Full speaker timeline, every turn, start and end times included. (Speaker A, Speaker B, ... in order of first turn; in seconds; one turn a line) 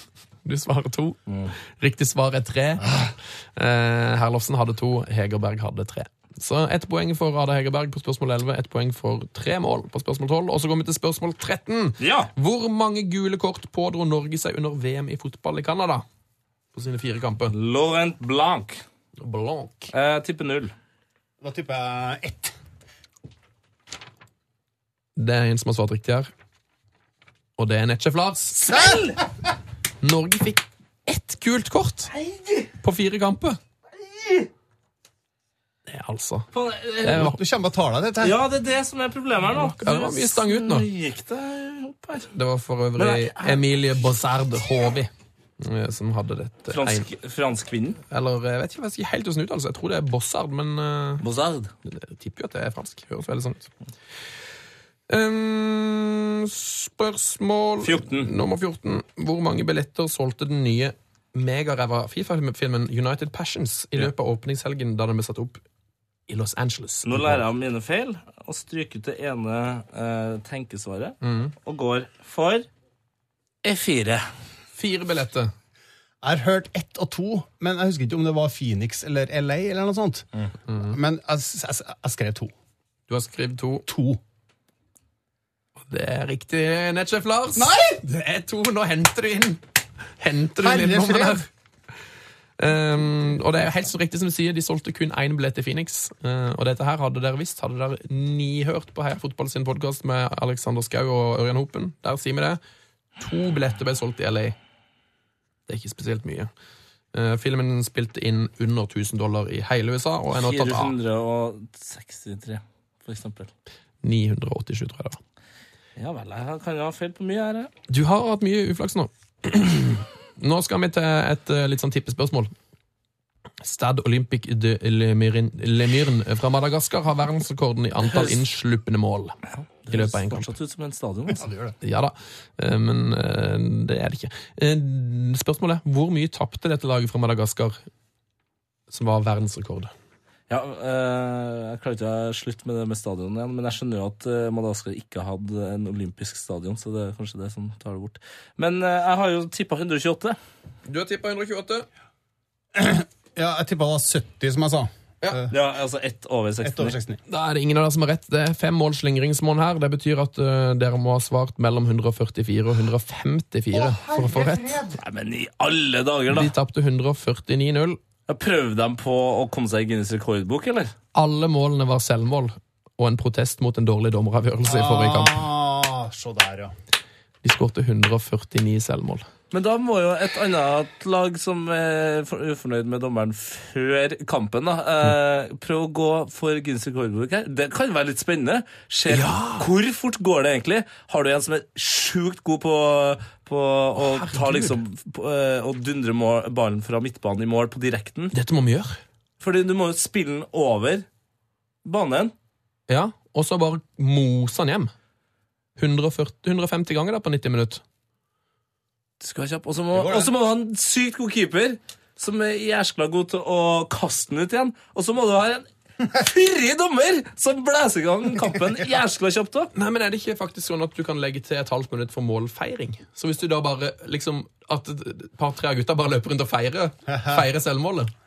Speaker A: 0.4-3.0
Speaker B: 1.3-1.5
Speaker A: 3.5-16.0
Speaker B: 12.0-12.3
Speaker A: 16.7-17.5
Speaker B: 17.5-18.8
Speaker A: 19.2-19.9
Speaker B: 19.9-20.7
Speaker C: 21.4-22.5
Speaker A: 25.1-26.3
Speaker A: 27.6-28.6
Speaker B: 28.6-29.2
Speaker C: 28.7-29.0
Speaker A: 30.0-32.1
Speaker B: 32.1-32.7
Speaker A: 32.8-33.6
Speaker B: 34.0-34.5
Speaker A: 35.9-36.5
Speaker B: 36.5-37.4
Speaker A: 37.0-37.4
Speaker C: 37.1-38.4
Speaker B: 38.2-42.3
Speaker A: 39.5-40.9
Speaker A: 42.3-47.1
Speaker B: 43.0-43.6
Speaker B: 46.7-48.0
Speaker A: 48.1-51.2
Speaker B: 51.2-51.7
Speaker A: 51.9-53.7
Speaker A: 55.1-65.6
Speaker B: 57.8-58.3
Speaker A: 66.3-67.4
Speaker B: 67.0-72.7
Speaker A: 71.2-71.5
Speaker B: 73.6-74.2
Speaker A: 74.7-75.5
Speaker C: 76.2-82.5
Speaker A: 83.1-83.8
Speaker C: 83.8-84.2
Speaker A: 85.8-89.6
Speaker C: 87.5-88.0
Speaker A: 90.2-91.5
Speaker C: 90.6-91.5
Speaker A: 92.6-102.6
Speaker A: 103.2-104.6
Speaker A: 105.7-106.5
Speaker A: 107.1-110.9
Speaker B: 110.3-113.5
Speaker A: 114.0-115.2
Speaker B: 116.0-117.7
Speaker A: 117.9-122.5
Speaker A: 123.6-129.4
Speaker B: 129.8-131.5
Speaker A: 129.9-130.5
Speaker C: 131.3-131.8
Speaker A: 131.8-137.8
Speaker A: 138.9-139.9
Speaker B: 140.5-150.4
Speaker A: 150.8-151.9
Speaker C: 152.7-155.5
Speaker B: 155.5-157.0
Speaker C: 156.6-157.2
Speaker A: 157.3-164.8
Speaker C: 163.7-165.0
Speaker B: 164.9-166.5
Speaker A: 166.3-168.0
Speaker B: 168.3-170.9
Speaker A: 171.1-175.4
Speaker C: 174.7-176.7
Speaker A: 177.4-179.2
Speaker B: 179.5-198.3
Speaker A: 189.1-189.7
Speaker A: 194.0-194.8
Speaker A: 198.3-199.0
Speaker B: 199.4-201.1
Speaker B: 201.8-202.3
Speaker A: 202.9-204.9
Speaker A: 205.8-207.8
Speaker B: 209.2-219.7
Speaker C: 209.9-210.3
Speaker A: 219.7-228.1
Speaker C: 227.1-227.4